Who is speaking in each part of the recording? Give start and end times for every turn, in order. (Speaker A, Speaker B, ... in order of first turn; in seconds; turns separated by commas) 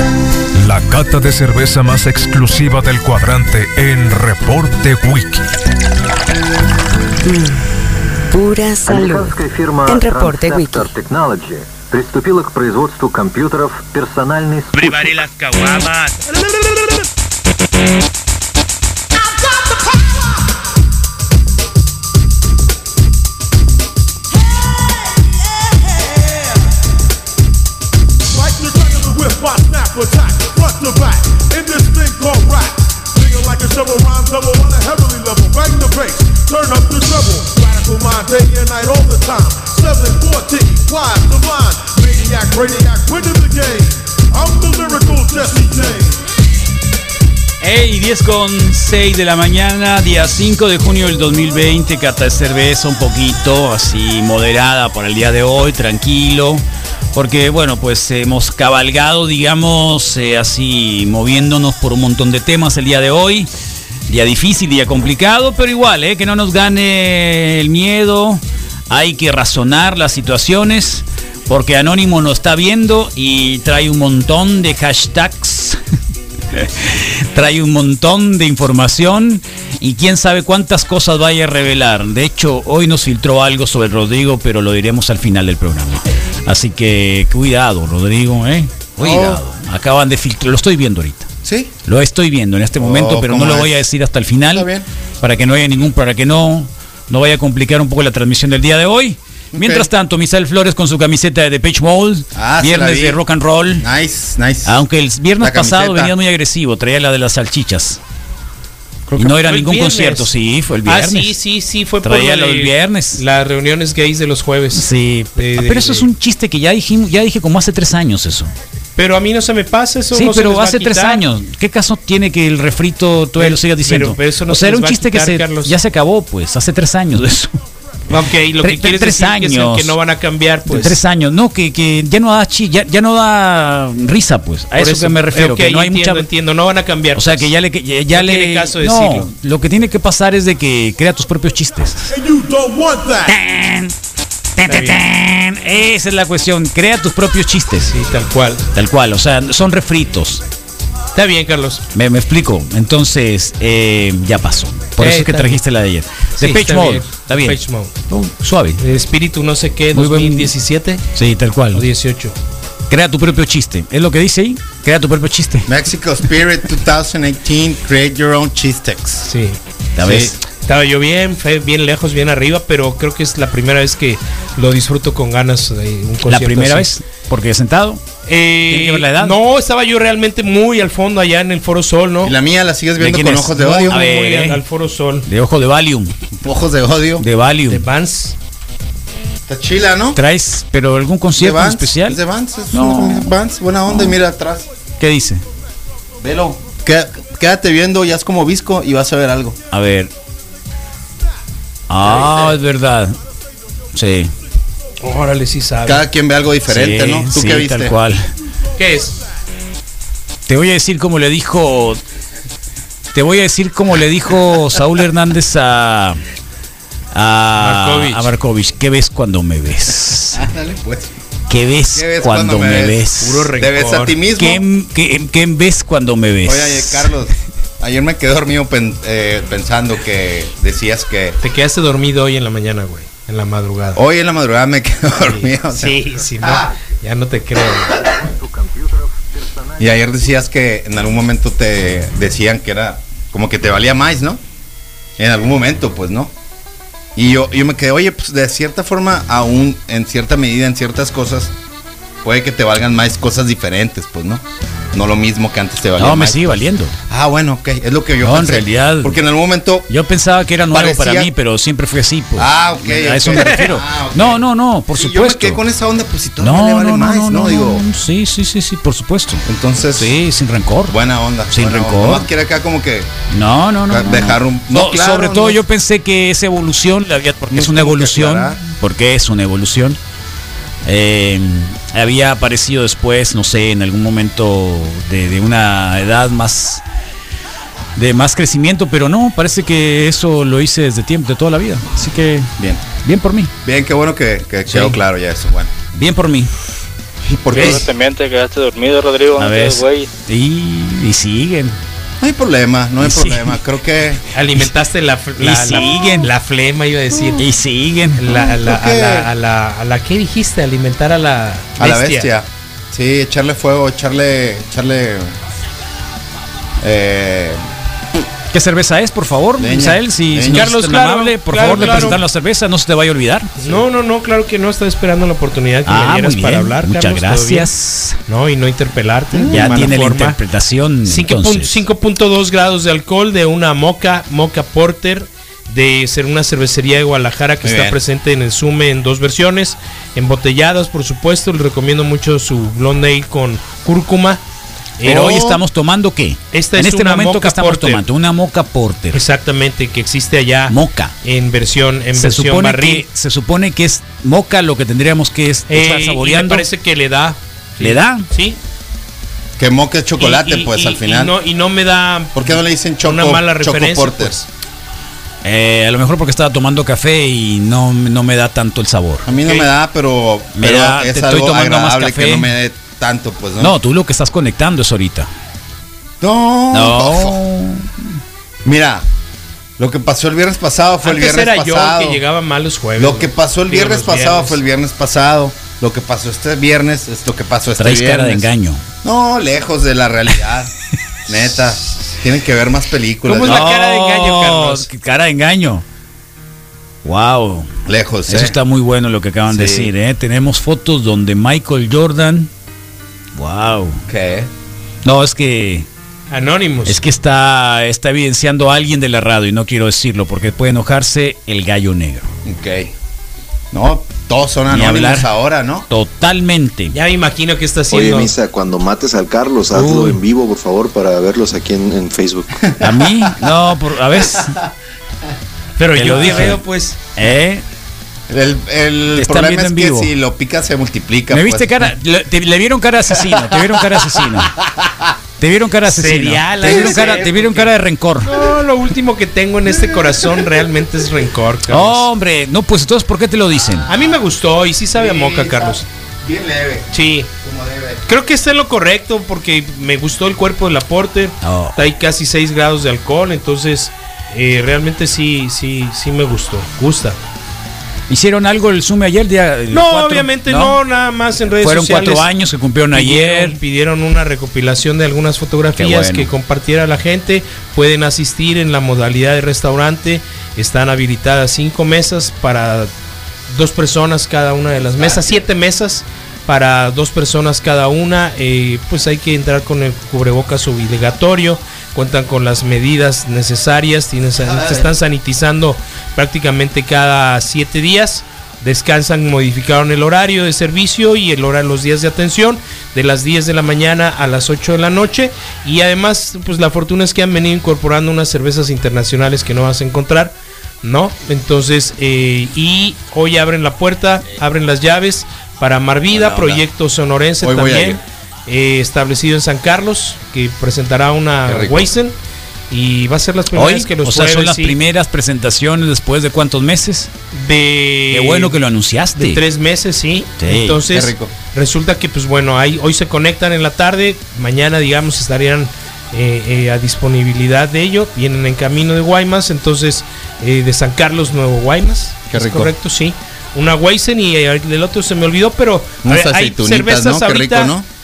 Speaker A: 0.5-5.5, Speaker B: 7.2-7.7, Speaker B: 8.3-10.9, Speaker C: 8.8-15.2, Speaker D: 14.8-16.1, Speaker E: 28.3-46.2, Speaker F: 47.6-63.5, Speaker F: 64.1-75.8, Speaker F: 76.5-91.3, Speaker G: 89.0-89.4, Speaker G: 91.4-91.7, Speaker F: 91.8-94.7, Speaker G: 92.8-93.8, Speaker G: 94.5-94.8, Speaker F: 95.2-103.8, Speaker G: 99.5-99.9, Speaker G: 102.3-103.2, Speaker G: 103.8-104.8, Speaker F: 104.6-108.0, Speaker G: 105.4-106.1, Speaker F: 109.1-111.3, Speaker H: 109.2-110.3, Speaker H: 110.8-116.1, Speaker F: 112.0-113.2, Speaker F: 114.7-118.5, Speaker H: 119.0-121.2, Speaker F: 120.1-127.5, Speaker H: 123.4-125.7, Speaker H: 128.1-131.0, Speaker F: 128.6-129.9, Speaker F: 130.7-136.2, Speaker H: 134.8-137.5, Speaker F: 137.1-142.1, Speaker H: 138.1-139.3, Speaker E: 142.1-143.3, Speaker F: 143.3-143.9, Speaker F: 144.6-147.9, Speaker H: 144.7-145.0, Speaker H: 147.9-148.6, Speaker F: 148.7-150.4, Speaker H: 151.1-151.8, Speaker F: 151.9-157.6, Speaker H: 155.0-155.6, Speaker H: 156.4-157.9, Speaker F: 158.1-158.8, Speaker H: 158.8-161.0, Speaker F: 159.9-160.5, Speaker F: 161.1-161.8, Speaker H: 161.7-162.3, Speaker F: 162.9-165.7, Speaker G: 165.7-169.3, Speaker H: 169.2-169.6, Speaker F: 169.9-170.4, Speaker G: 170.0-170.3, Speaker H: 170.6-176.9, Speaker F: 176.2-178.0, Speaker H: 178.2-182.3, Speaker F: 178.7-179.3, Speaker G: 182.2-184.0, Speaker F: 183.0-184.6, Speaker H: 183.8-185.2, Speaker F: 185.2-186.1, Speaker G: 186.4-187.2, Speaker F: 187.2-187.8, Speaker H: 187.7-188.3, Speaker G: 189.4-190.2, Speaker F: 190.2-192.2, Speaker G: 191.3-194.7, Speaker F: 192.7-193.3, Speaker F: 195.0-195.4, Speaker G: 196.2-199.6, Speaker F: 199.7-200.1, Speaker F: 201.9-203.2, Speaker G: 202.0-202.6, Speaker F: 203.9-204.3, Speaker H: 205.0-206.0, Speaker G: 205.8-208.0, Speaker F: 206.7-208.2, Speaker H: 208.8-209.2, Speaker F: 210.5-212.0, Speaker F: 213.1-216.2, Speaker F: 217.1-220.4, Speaker H: 217.6-218.3, Speaker G: 220.3-221.1, Speaker F: 221.5-223.5, Speaker G: 221.9-224.6, Speaker H: 223.2-224.2, Speaker F: 224.4-227.1, Speaker G: 226.4-231.4, Speaker H: 231.4-234.0, Speaker G: 233.9-236.7, Speaker H: 235.2-238.0, Speaker C: 237.9-240.4, Speaker G: 239.8-244.4, Speaker G: 245.2-246.3, Speaker G: 247.2-251.5, Speaker G: 252.2-256.6, Speaker F: 256.0-256.9, Speaker G: 257.1-259.9, Speaker F: 258.2-259.2, Speaker F: 259.9-265.6, Speaker G: 260.7-261.3, Speaker G: 262.4-267.8, Speaker F: 266.4-269.4, Speaker G: 269.4-270.1, Speaker F: 270.0-270.9, Speaker G: 270.9-273.1, Speaker F: 271.5-272.3, Speaker F: 273.3-280.0, Speaker G: 273.9-275.6, Speaker G: 277.5-278.6, Speaker F: 280.8-286.8, Speaker F: 287.9-292.5, Speaker G: 292.6-292.9, Speaker F: 293.0-293.5, Speaker G: 293.6-295.7, Speaker F: 295.9-296.5, Speaker G: 297.2-297.9, Speaker D: 297.5-300.1, Speaker F: 299.4-301.8, Speaker G: 302.2-304.2, Speaker F: 303.0-303.6, Speaker H: 304.3-307.4, Speaker F: 305.4-306.3, Speaker F: 307.4-308.2, Speaker H: 308.2-312.3, Speaker G: 308.3-309.3, Speaker G: 311.8-315.3, Speaker G: 316.8-317.6, Speaker F: 318.5-323.8, Speaker G: 319.6-320.7, Speaker H: 320.5-322.2, Speaker G: 321.6-322.2, Speaker H: 323.6-327.7, Speaker F: 325.9-328.2, Speaker H: 328.3-330.4, Speaker G: 329.3-330.0, Speaker F: 329.5-331.8, Speaker H: 331.0-344.4, Speaker G: 337.6-338.0, Speaker H: 345.0-345.5, Speaker F: 345.0-349.2, Speaker G: 345.1-345.6, Speaker H: 346.5-348.0, Speaker H: 349.1-353.0, Speaker F: 350.7-351.1, Speaker F: 352.1-356.6, Speaker H: 355.7-358.6, Speaker F: 357.8-358.2, Speaker G: 359.6-361.3, Speaker H: 360.2-364.5, Speaker G: 362.3-364.4, Speaker F: 365.4-369.3, Speaker G: 369.2-373.7, Speaker F: 370.5-372.5, Speaker F: 373.6-375.3, Speaker G: 376.2-377.4, Speaker F: 376.7-377.9, Speaker G: 378.6-379.0, Speaker G: 379.8-382.2, Speaker H: 381.0-384.6, Speaker G: 383.0-388.5, Speaker F: 387.8-388.8, Speaker G: 389.0-390.7, Speaker G: 391.3-393.7, Speaker H: 393.2-394.9, Speaker F: 393.4-395.8, Speaker F: 397.0-397.7, Speaker G: 397.9-398.6, Speaker F: 398.3-402.5, Speaker G: 399.5-399.9, Speaker F: 403.3-404.0, Speaker G: 404.1-404.5, Speaker F: 405.0-405.9, Speaker H: 406.3-407.0, Speaker F: 406.9-412.3, Speaker G: 412.4-412.9, Speaker G: 413.7-415.9, Speaker F: 414.7-415.3, Speaker F: 415.9-416.9, Speaker H: 416.9-418.3, Speaker I: 417.9-422.6, Speaker F: 419.7-420.2, Speaker F: 422.8-424.6, Speaker H: 425.8-427.0, Speaker F: 425.9-426.6, Speaker F: 427.1-427.6, Speaker G: 428.3-431.9, Speaker F: 429.1-430.1, Speaker F: 431.3-434.6, Speaker G: 434.6-434.9, Speaker F: 435.4-438.3, Speaker H: 435.9-437.7, Speaker H: 438.2-442.1, Speaker F: 441.7-443.9, Speaker G: 443.6-444.1, Speaker H: 443.9-445.8, Speaker G: 444.9-446.9, Speaker H: 446.9-447.3, Speaker G: 447.4-448.0, Speaker H: 448.1-457.2, Speaker F: 451.4-451.8, Speaker F: 458.1-460.8, Speaker H: 459.7-462.3, Speaker F: 461.5-463.6, Speaker H: 462.9-472.9, Speaker F: 465.8-466.3, Speaker H: 473.5-512.1, Speaker G: 474.9-475.4, Speaker G: 484.4-484.9, Speaker G: 506.1-506.6, Speaker G: 507.4-508.0, Speaker G: 511.5-511.9, Speaker H: 512.7-514.8, Speaker F: 513.5-517.1, Speaker H: 517.3-518.6, Speaker F: 518.1-519.4, Speaker H: 519.2-537.7, Speaker F: 520.4-520.8, Speaker G: 520.9-521.3, Speaker G: 532.3-532.7, Speaker G: 536.0-537.9